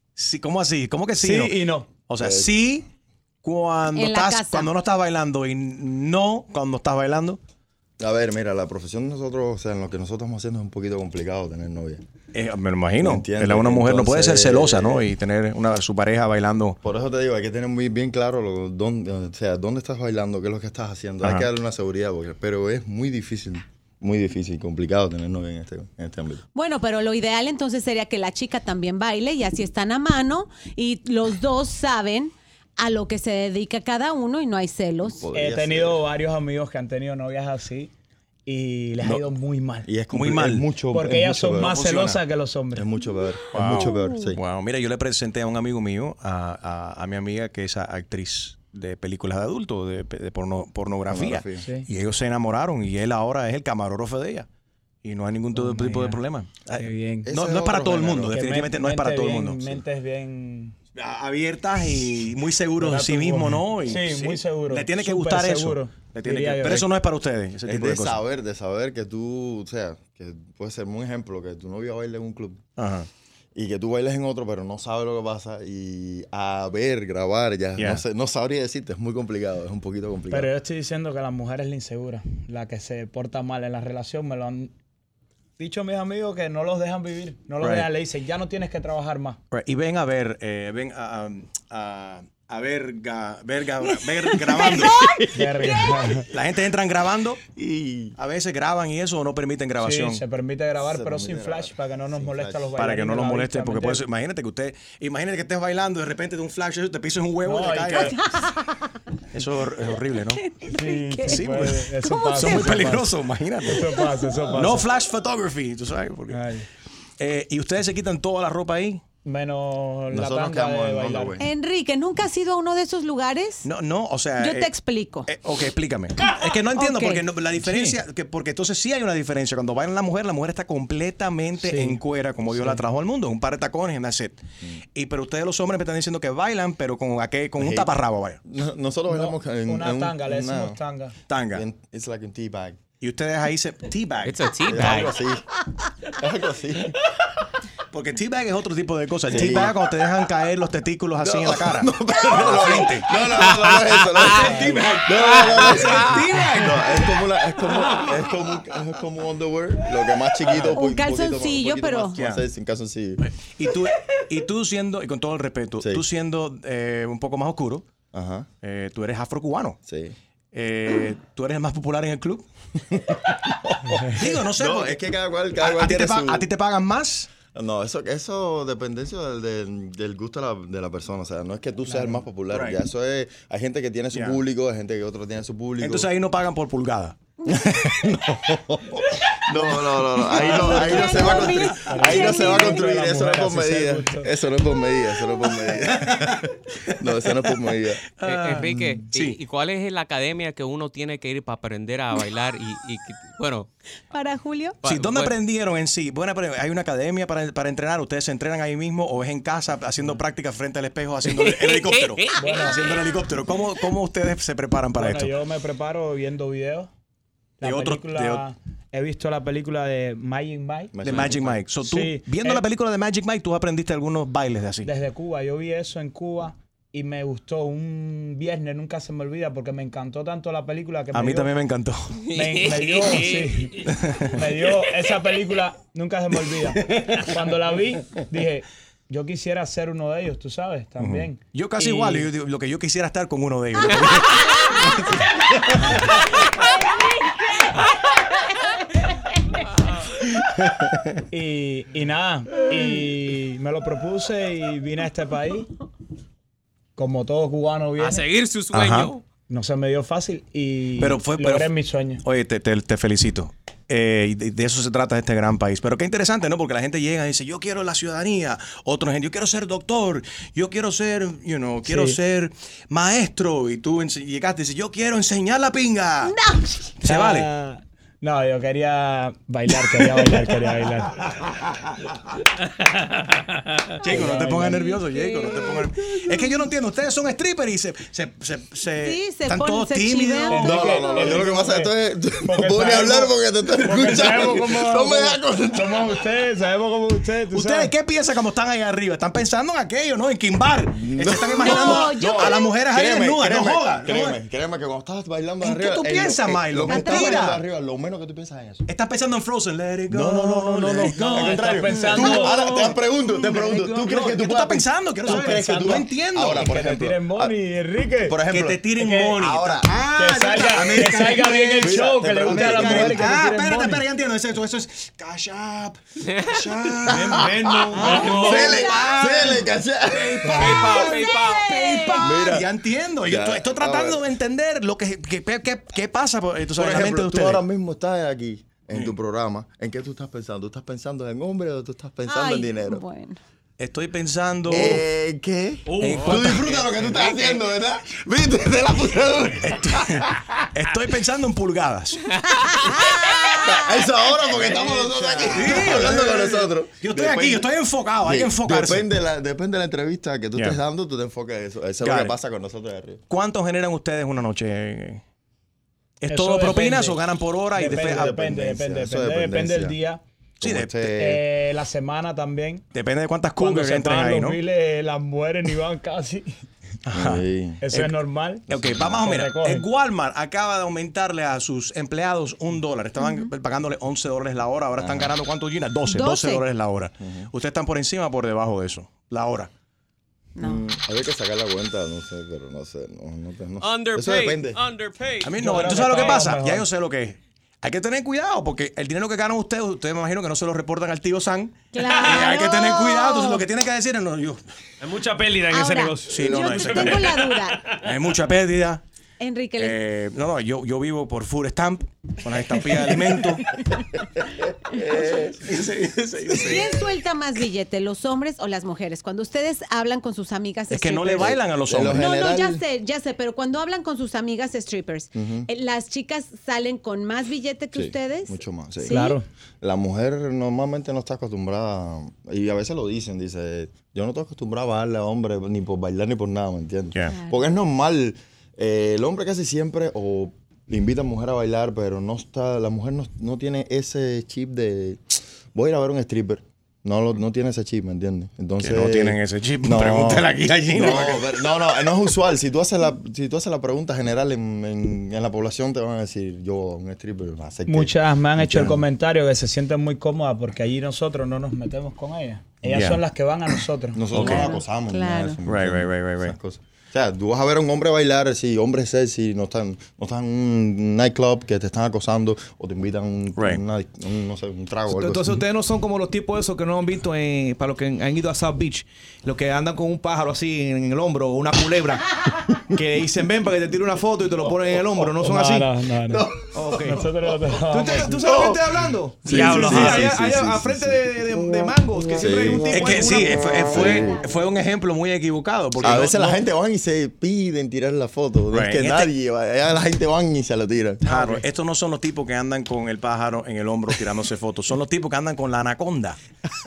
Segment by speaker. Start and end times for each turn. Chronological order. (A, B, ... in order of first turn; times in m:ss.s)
0:00.2-0:01.5 A
0:01.2-0:01.9 B
0:02.1-0:02.8 A
0:02.2-0:02.6 C
0:03.4-0:07.4 A
0:03.9-0:04.7 D
0:08.0-0:12.0 C
0:12.3-0:16.8 A
0:13.0-0:15.1 C
0:16.8-0:26.4 C
0:26.6-0:35.2 D
0:35.1-0:36.0 C
0:35.3-0:37.9 B
0:38.5-0:39.9 B
0:39.8-0:41.9 C
0:40.1-0:40.6 A
0:40.9-0:42.9 B
0:41.7-0:42.2 A
0:42.7-0:44.4 C
0:43.5-0:54.5 A
0:51.1-0:51.6 C
0:51.6-0:51.9 B
0:55.0-0:59.8 A
0:55.5-0:56.2 B
0:56.7-0:57.3 B
0:57.3-0:58.4 C
0:58.3-1:00.8 B
1:01.0-1:08.2 A
1:02.8-1:06.9 B
1:07.7-1:12.6 C
1:12.8-1:13.1 A
1:13.6-1:20.5 C
1:20.3-1:24.7 B
1:25.6-1:29.4 B
1:27.6-1:27.9 A
1:29.5-1:35.1 A
1:34.1-1:35.4 D
1:35.3-1:36.3 B
1:36.3-1:37.4 A
1:37.5-1:38.2 C
1:38.2-1:40.2 A
1:39.8-1:44.1 B
1:40.8-1:42.8 C
1:42.8-1:48.3 A
1:47.4-1:48.2 B
1:48.3-1:49.0 D
1:49.3-1:50.4 A
1:50.4-1:51.5 D
1:50.7-1:54.9 B
1:51.3-1:51.9 A
1:52.1-1:52.8 D
1:52.4-1:53.9 A
1:54.5-1:56.4 A
1:56.3-1:56.7 B
1:57.2-1:59.0 A
1:59.2-2:01.4 B
2:00.1-2:01.5 C
2:01.4-2:03.7 D
2:03.6-2:04.7 A
2:04.4-2:05.3 D
2:05.3-2:14.4 A
2:06.7-2:07.2 D
2:11.6-2:12.8 B
2:15.0-2:18.4 A
2:17.6-2:17.9 C
2:18.5-2:20.8 C
2:19.1-2:21.2 B
2:21.3-2:21.6 A
2:21.5-2:22.8 C
2:23.0-2:24.4 A
2:24.2-2:25.1 E
2:24.7-2:27.0 C
2:27.9-2:33.1 A
2:29.3-2:29.8 C
2:31.2-2:43.3 C
2:33.4-2:34.6 E
2:34.2-2:36.9 A
2:35.2-2:35.9 E
2:40.7-2:42.2 D
2:43.2-2:47.9 A
2:48.1-2:48.5 C
2:48.6-2:49.8 A
2:49.9-2:50.2 C
2:50.5-2:52.4 A
2:52.9-2:56.5 C
2:54.2-2:55.0 A
2:55.6-2:57.3 A
2:57.5-3:06.1 C
3:01.9-3:02.2 B
3:02.5-3:02.8 A
3:04.1-3:04.4 A
3:05.8-3:08.2 A
3:07.6-3:18.0 C
3:10.4-3:14.3 B
3:10.6-3:12.8 D
3:15.9-3:16.5 A
3:18.2-3:19.4 A
3:18.2-3:23.7 E
3:24.1-3:24.8 D
3:24.8-3:25.4 E
3:24.8-3:35.3 A
3:31.2-3:33.0 E
3:32.4-3:32.8 B
3:35.0-3:36.9 B
3:37.6-3:40.9 B
3:37.6-3:38.4 A
3:40.9-3:41.6 C
3:41.0-3:44.9 A
3:41.8-3:42.6 B
3:44.8-3:51.5 B
3:51.1-3:52.2 A
3:52.3-3:53.6 E
3:52.3-4:02.3 B
3:54.0-3:54.3 A
4:01.0-4:06.3 A
4:10.6-4:11.1 A
4:11.3-4:15.7 B
4:17.0-4:18.2 B
4:18.0-4:19.2 E
4:18.7-4:19.1 A
4:19.5-4:22.2 B
4:21.0-4:21.7 A
4:22.2-4:36.4 A
4:31.8-4:32.2 B
4:36.2-4:36.9 D
4:37.0-4:37.5 A
4:37.0-4:41.2 B
4:44.0-4:44.8 B
4:44.0-4:50.8 A
4:44.6-4:45.8 D
4:49.0-4:51.4 D
4:50.5-4:57.9 B
4:50.5-4:56.3 C
4:57.5-5:04.4 A
5:00.9-5:08.8 C
5:01.6-5:02.7 D
5:05.6-5:07.6 A
5:06.8-5:07.6 D
5:08.9-5:12.7 A
5:10.1-5:17.6 C
5:10.7-5:12.6 B
5:12.7-5:14.2 F
5:14.1-5:16.7 A
5:15.2-5:18.4 B
5:18.2-5:18.8 C
5:18.5-5:29.6 A
5:19.0-5:19.4 B
5:19.4-5:19.9 C
5:20.2-5:24.0 B
5:20.7-5:21.2 C
5:21.8-5:23.3 C
5:26.2-5:26.6 E
5:27.0-5:28.9 F
5:27.1-5:30.9 C
5:28.0-5:28.3 B
5:28.5-5:29.6 D
5:30.2-5:32.1 E
5:30.3-5:37.6 A
5:30.4-5:31.0 B
5:30.6-5:32.4 D
5:32.2-5:32.7 C
5:33.2-5:34.2 C
5:36.8-5:43.0 C
5:42.3-5:43.4 D
5:43.8-5:45.0 A
5:44.7-5:50.5 C
5:45.9-5:47.5 F
5:46.1-5:46.4 A
5:49.6-5:52.4 A
5:52.4-5:53.8 D
5:53.6-5:57.7 C
5:54.6-5:55.9 F
5:55.5-5:59.1 A
5:58.2-6:03.2 C
6:02.0-6:02.3 A
6:03.3-6:05.2 A
6:06.2-6:08.3 A
6:06.3-6:10.2 B
6:07.8-6:10.0 C
6:10.6-6:11.4 C
6:10.6-6:11.2 A
6:11.2-6:12.8 B
6:12.9-6:14.6 A
6:13.6-6:16.5 B
6:17.1-6:18.1 A
6:17.1-6:17.8 C
6:17.8-6:19.9 B
6:18.7-6:19.3 C
6:18.7-6:29.7 A
6:23.2-6:23.5 D
6:25.0-6:25.4 C
6:26.1-6:26.6 D
6:27.2-6:27.5 C
6:30.6-6:30.8 D
6:30.6-6:34.8 C
6:33.8-6:35.5 E
6:35.4-6:44.6 A
6:35.6-6:36.9 B
6:41.9-6:43.6 D
6:42.2-6:42.4 F
6:45.0-6:48.1 F
6:45.7-6:48.0 D
6:46.3-6:47.4 A
6:48.0-6:49.0 A
6:49.4-6:50.0 D
6:49.8-6:53.8 A
6:54.8-6:55.6 C
6:55.6-6:57.0 A
6:56.5-7:01.6 D
7:00.9-7:02.3 A
7:01.4-7:02.8 C
7:02.1-7:09.4 D
7:05.4-7:05.7 C
7:07.9-7:09.2 C
7:09.1-7:09.4 B
7:09.8-7:39.0 C
7:17.2-7:17.6 D
7:28.8-7:31.5 A
7:37.9-7:44.7 B
7:42.8-7:43.2 A
7:44.1-7:55.5 C
7:44.3-7:44.7 A
7:44.4-7:45.6 D
7:45.7-7:46.6 A
7:53.6-7:53.8 A
7:55.1-8:06.0 F
8:05.4-8:06.5 B
8:06.3-8:07.3 C
8:06.7-8:14.2 F
8:07.0-8:08.4 B
8:08.3-8:08.8 C
8:09.5-8:11.3 C
8:09.7-8:10.2 A
8:12.3-8:13.0 C
8:12.9-8:16.6 A
8:13.8-8:14.4 C
8:16.0-8:21.3 C
8:18.7-8:19.3 A
8:21.3-8:26.4 A